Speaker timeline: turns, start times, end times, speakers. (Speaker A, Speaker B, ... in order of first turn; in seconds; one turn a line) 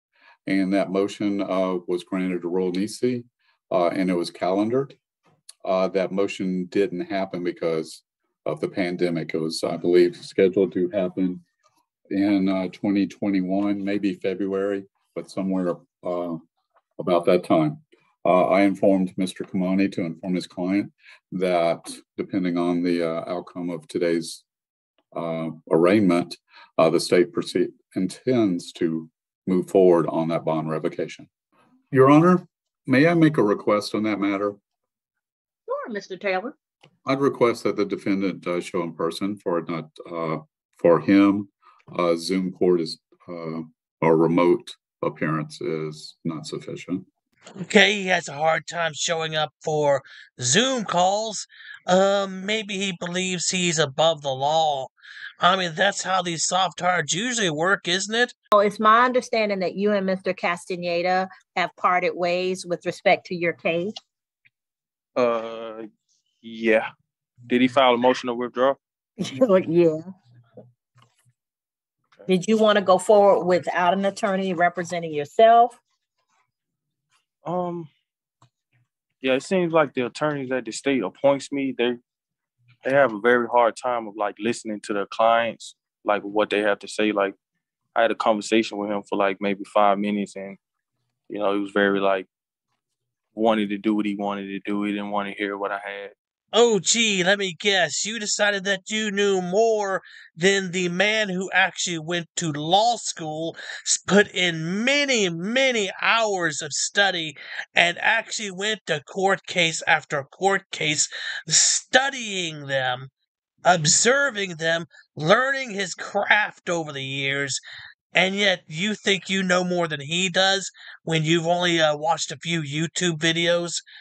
Speaker A: 0.5-5.0
Speaker A: 5.6-11.4
Speaker A: 12.1-16.4
Speaker A: 17.0-24.4
Speaker A: 25.1-31.3
Speaker A: 31.9-34.6
Speaker B: 35.7-36.5
Speaker A: 37.0-47.0
Speaker C: 47.6-58.3
Speaker B: 58.5-63.9
Speaker D: 65.2-65.8
Speaker D: 66.4-66.9
Speaker D: 67.5-68.8
Speaker B: 69.2-70.0
Speaker B: 72.3-75.8
Speaker D: 77.4-77.9
Speaker D: 79.2-82.0
Speaker D: 82.8-87.3
Speaker D: 87.9-90.6
Speaker D: 91.3-92.3
Speaker D: 93.3-96.1
Speaker C: 96.5-113.1
Speaker C: 113.7-117.6
Speaker C: 118.1-123.8